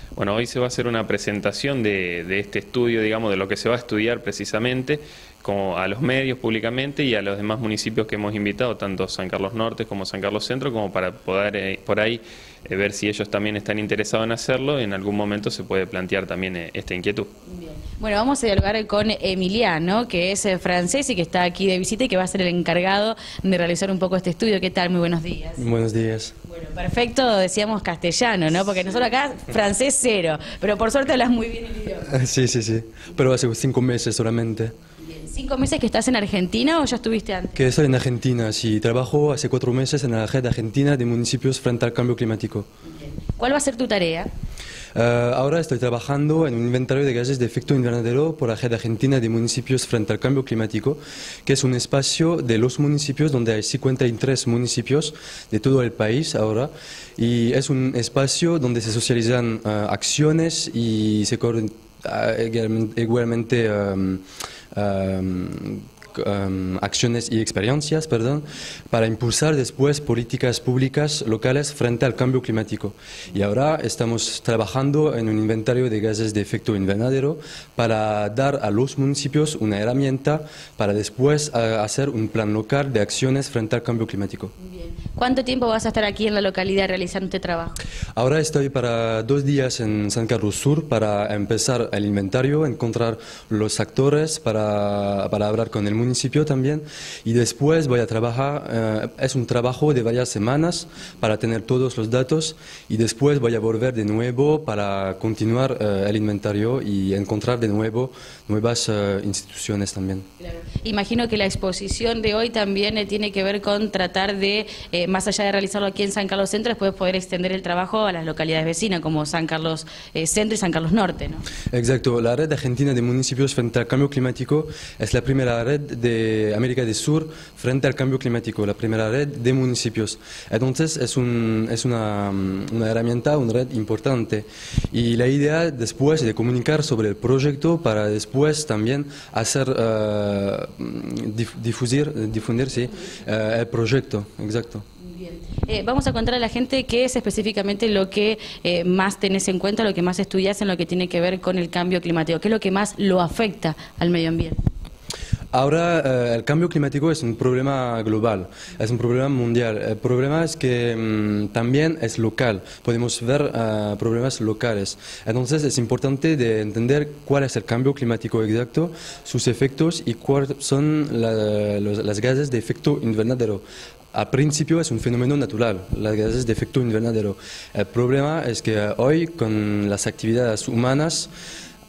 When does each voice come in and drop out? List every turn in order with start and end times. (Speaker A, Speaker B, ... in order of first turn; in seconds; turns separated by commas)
Speaker A: 0.1-17.3, Speaker B: 17.5-25.6, Speaker C: 25.6-26.3, Speaker B: 26.5-32.1, Speaker C: 32.1-34.7, Speaker B: 35.0-37.6, Speaker C: 37.6-42.7, Speaker B: 42.8-44.3, Speaker C: 45.0-84.5, Speaker B: 84.6-87.8, Speaker C: 88.1-110.2, Speaker B: 110.4-121.4, Speaker C: 121.7-144.8, Speaker B: 145.0-154.6, Speaker C: 155.5-181.3